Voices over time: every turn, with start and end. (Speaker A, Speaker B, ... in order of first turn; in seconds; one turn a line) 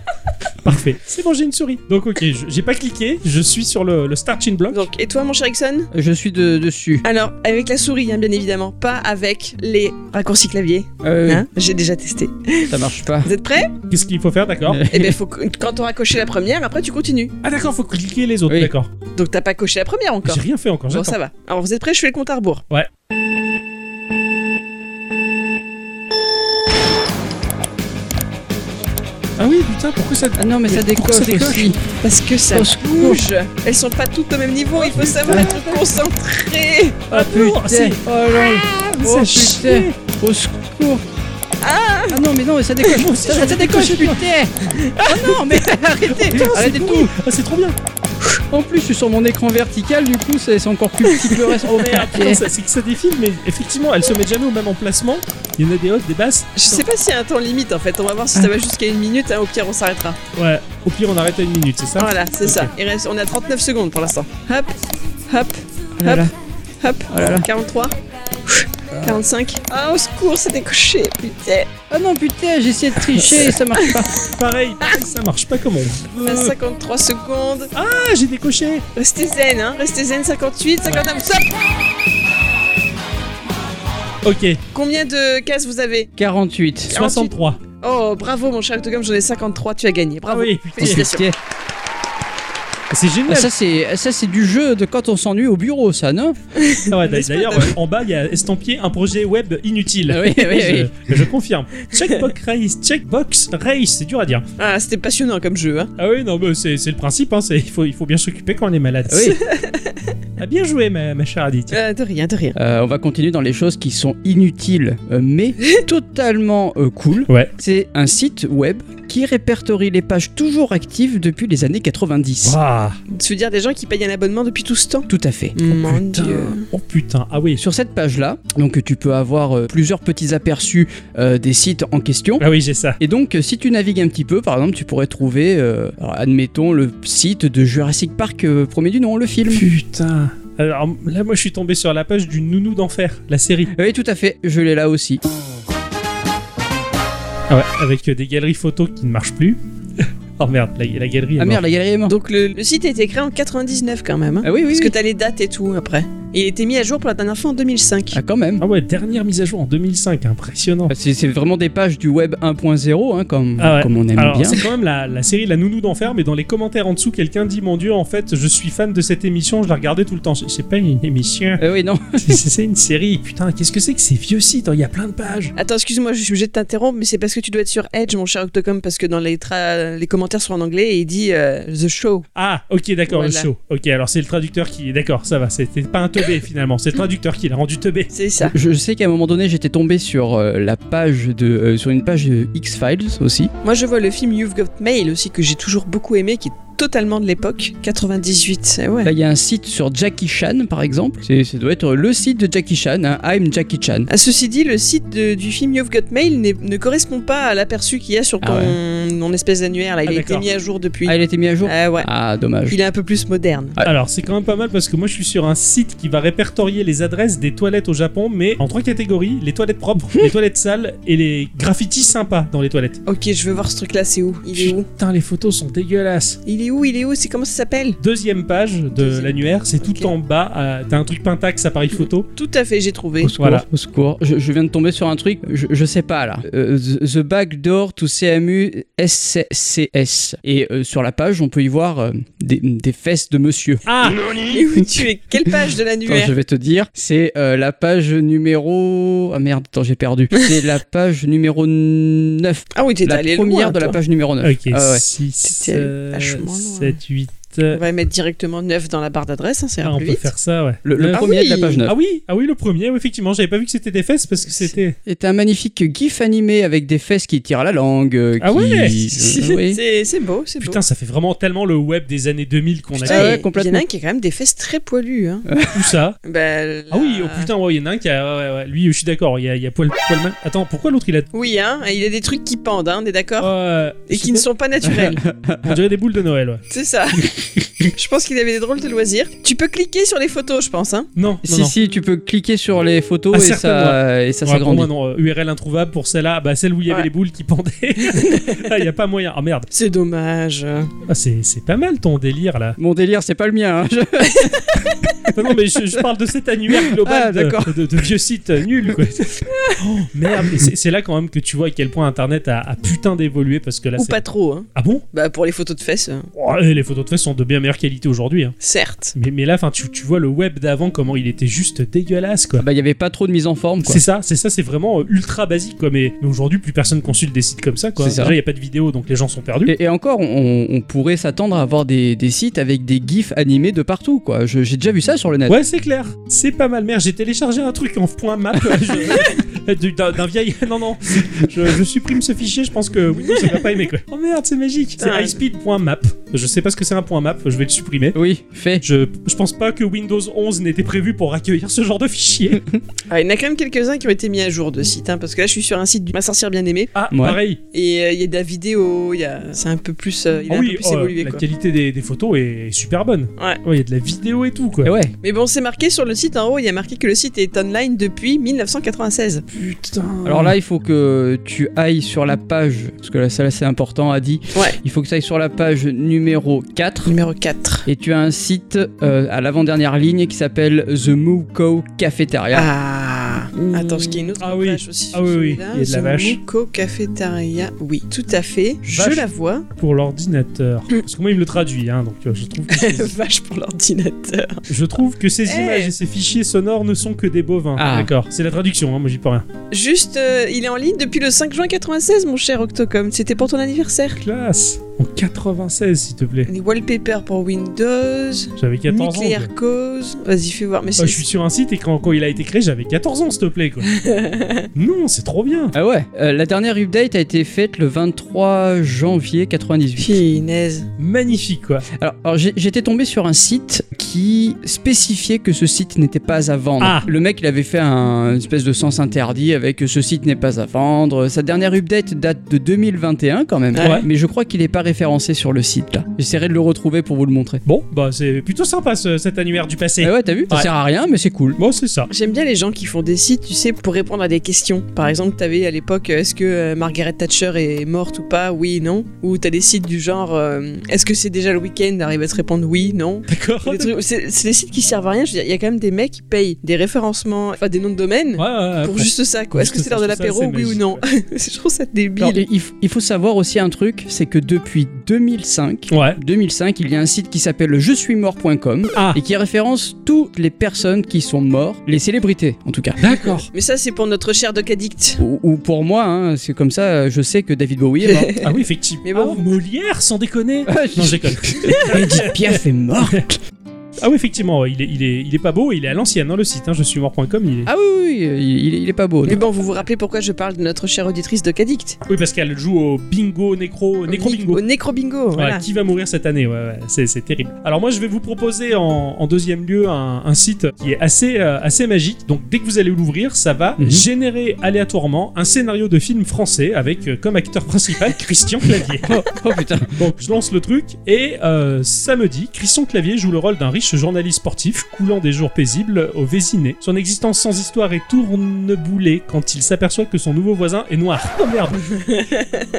Speaker A: 0.6-4.9
Speaker B: 4.7-5.9
Speaker C: 5.9-7.0
Speaker B: 7.0-13.8
Speaker C: 11.0-11.4
Speaker C: 12.7-13.3
Speaker A: 13.9-14.8
Speaker C: 14.7-15.2
Speaker B: 14.9-17.3
Speaker A: 17.4-18.9
Speaker B: 19.1-22.6
Speaker A: 20.2-21.1
Speaker A: 29.4-31.7
Speaker C: 30.3-31.8
Speaker B: 31.9-37.0
Speaker C: 32.5-33.2
Speaker A: 34.8-35.6
Speaker C: 35.1-35.6
Speaker A: 37.1-39.9
Speaker C: 37.1-41.0
Speaker B: 41.6-42.2
Speaker C: 42.1-47.1
Speaker A: 42.9-44.2
Speaker A: 45.0-45.4
Speaker A: 46.1-47.8
Speaker C: 48.5-52.4
Speaker A: 51.6-56.8
Speaker B: 56.5-60.2
Speaker A: 60.4-62.7
Speaker B: 62.0-66.3
Speaker C: 66.0-66.3
Speaker B: 66.8-67.9
Speaker C: 67.1-67.5
Speaker B: 68.5-71.7
Speaker C: 71.9-74.1
Speaker A: 74.2-76.2
Speaker C: 76.2-76.5
Speaker B: 76.2-77.7
Speaker A: 77.7-78.8
Speaker B: 78.9-81.5
Speaker A: 84.2-84.6
Speaker B: 84.7-86.1
Speaker C: 86.2-87.0
Speaker B: 86.9-91.3
Speaker A: 86.9-87.6
Speaker A: 90.3-91.1
Speaker C: 90.8-91.3
Speaker A: 92.9-93.5
Speaker C: 93.3-96.4
Speaker B: 96.5-97.7
Speaker A: 96.9-104.4
Speaker C: 100.1-100.9
Speaker B: 104.6-105.9
Speaker A: 106.0-109.4
Speaker C: 109.1-109.4
Speaker B: 109.4-110.0
Speaker A: 110.4-111.8
Speaker B: 111.7-112.6
Speaker C: 112.5-122.6
Speaker A: 122.4-123.0
Speaker B: 123.1-126.7
Speaker C: 125.1-125.5
Speaker A: 125.7-127.6
Speaker C: 127.6-132.4
Speaker A: 132.4-133.0
Speaker C: 133.0-139.7
Speaker A: 139.5-143.7
Speaker C: 143.7-145.2
Speaker A: 147.5-151.6
Speaker C: 151.4-152.1
Speaker B: 152.1-158.2
Speaker C: 154.4-154.9
Speaker C: 158.1-158.6
Speaker A: 158.6-160.9
Speaker C: 160.9-164.6
Speaker A: 163.6-171.6
Speaker C: 171.6-172.4
Speaker A: 172.2-175.5
Speaker B: 175.6-182.2
Speaker A: 182.3-188.1
Speaker B: 183.1-183.5
Speaker B: 188.1-188.6
Speaker C: 188.4-193.5
Speaker B: 193.6-199.1
Speaker C: 199.0-204.1
Speaker B: 204.1-212.1
Speaker C: 208.4-208.8
Speaker A: 210.1-210.4
Speaker C: 211.1-212.8
Speaker B: 212.7-213.8
Speaker A: 213.8-223.0
Speaker B: 223.1-224.9
Speaker A: 224.5-226.4
Speaker B: 226.4-228.0
Speaker A: 228.0-232.3
Speaker B: 229.0-230.1
Speaker B: 232.3-233.3
Speaker C: 233.2-243.8
Speaker A: 233.4-233.6
Speaker A: 243.8-244.2
Speaker B: 244.4-246.3
Speaker C: 246.1-255.0
Speaker B: 252.7-254.0
Speaker A: 254.4-257.8
Speaker B: 255.4-257.0
Speaker B: 257.7-260.2
Speaker A: 259.8-261.3
Speaker C: 260.8-261.9
Speaker B: 261.1-261.8
Speaker A: 261.8-264.9
Speaker C: 265.1-269.8
Speaker A: 268.4-269.0
Speaker B: 269.1-270.8
Speaker A: 270.6-273.3
Speaker C: 273.0-273.8
Speaker B: 273.0-275.5
Speaker C: 275.5-275.8
Speaker A: 275.7-276.2
Speaker B: 276.2-277.5
Speaker A: 276.9-281.3
Speaker B: 281.3-283.5
Speaker A: 283.4-284.4
Speaker B: 284.1-285.2
Speaker C: 284.8-285.8
Speaker A: 285.6-286.6
Speaker B: 286.7-291.1
Speaker A: 291.1-291.7
Speaker C: 291.4-294.9
Speaker A: 293.3-299.7
Speaker B: 298.1-298.7
Speaker B: 299.7-300.9
Speaker A: 301.1-302.8
Speaker C: 302.8-305.3
Speaker B: 304.3-305.1
Speaker A: 305.3-314.2
Speaker C: 306.7-307.9
Speaker B: 309.5-309.8
Speaker B: 314.0-316.3
Speaker A: 314.7-315.0
Speaker A: 316.3-318.5
Speaker B: 318.6-319.1
Speaker A: 319.1-322.6
Speaker C: 322.6-324.0
Speaker A: 323.9-329.7
Speaker C: 328.0-328.4
Speaker C: 329.6-335.6
Speaker A: 335.5-348.2
Speaker B: 345.0-345.4
Speaker C: 348.1-348.8
Speaker A: 348.8-352.6
Speaker B: 353.1-356.9
Speaker A: 356.9-357.6
Speaker C: 357.1-357.4
Speaker B: 357.7-361.4
Speaker A: 360.5-364.9
Speaker C: 364.8-365.1
Speaker B: 365.2-369.5
Speaker A: 369.5-370.5
Speaker C: 370.2-377.1
Speaker B: 377.0-377.9
Speaker C: 377.9-382.7
Speaker B: 382.5-389.6
Speaker A: 384.4-386.4
Speaker A: 388.9-393.1
Speaker B: 392.7-394.7
Speaker A: 394.7-399.4
Speaker B: 395.4-395.9
Speaker C: 397.8-398.1
Speaker B: 399.7-404.2
Speaker A: 404.2-406.5
Speaker B: 406.5-411.2
Speaker A: 408.6-409.5
Speaker A: 411.0-413.9
Speaker B: 413.8-414.7
Speaker A: 414.7-415.7
Speaker C: 415.7-420.2
Speaker B: 420.0-420.9
Speaker A: 421.0-421.9
Speaker C: 421.9-437.6
Speaker A: 426.8-427.1
Speaker B: 433.7-434.0
Speaker A: 433.8-434.1
Speaker A: 437.6-440.7
Speaker C: 440.0-441.6
Speaker A: 441.6-442.1
Speaker B: 442.1-462.4
Speaker A: 453.3-453.9
Speaker A: 458.4-461.0
Speaker C: 462.2-473.0
Speaker A: 465.9-466.2
Speaker A: 473.0-473.5
Speaker B: 473.1-475.2
Speaker C: 475.2-478.3
Speaker B: 478.0-479.4
Speaker A: 478.4-483.2
Speaker C: 480.7-483.4
Speaker B: 481.6-481.9
Speaker A: 484.0-487.7
Speaker C: 487.6-489.4
Speaker B: 489.2-492.0
Speaker A: 492.1-494.6
Speaker B: 494.1-495.6
Speaker A: 495.3-509.1
Speaker C: 503.8-504.1
Speaker C: 509.0-510.0
Speaker A: 509.9-521.8
Speaker B: 521.9-522.7